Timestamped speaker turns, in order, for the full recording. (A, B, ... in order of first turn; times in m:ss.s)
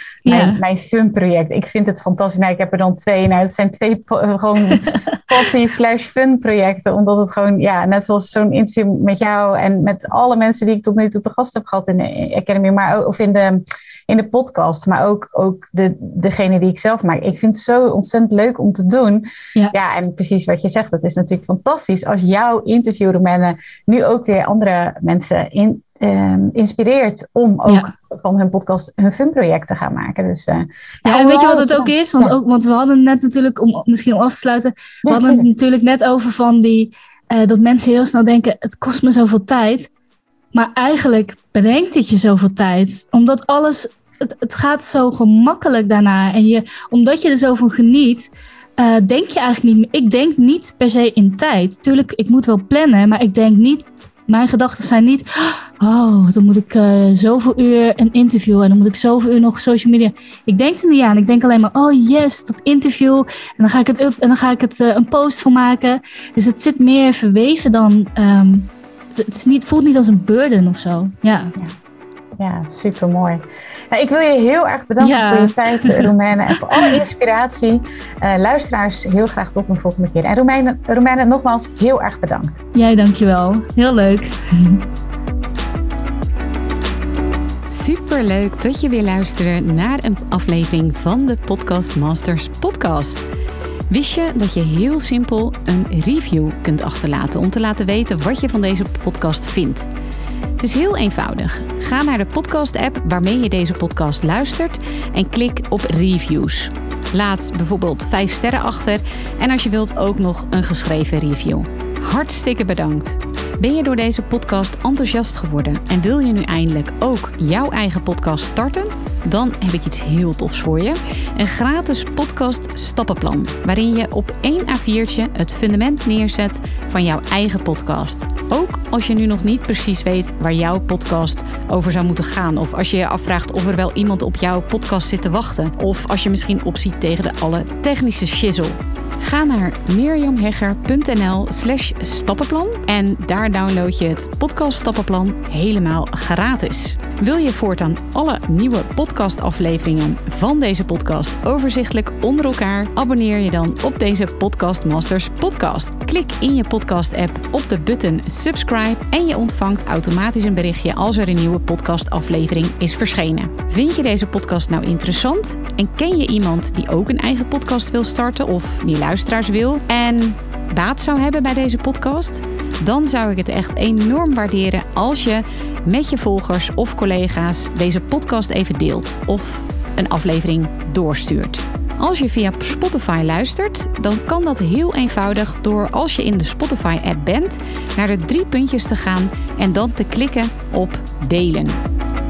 0:00.2-0:00.6 A
0:00.2-0:32.4 B
0:27.7-0:27.9 A
0:31.0-0:39.9 A
0:35.0-0:35.5 B
0:40.5-1:11.5 A
1:12.4-1:22.6 B
1:15.0-1:16.1 A
1:22.7-1:24.8 A
1:27.7-1:33.2 C
1:33.9-1:39.9 C
1:40.6-3:11.8 C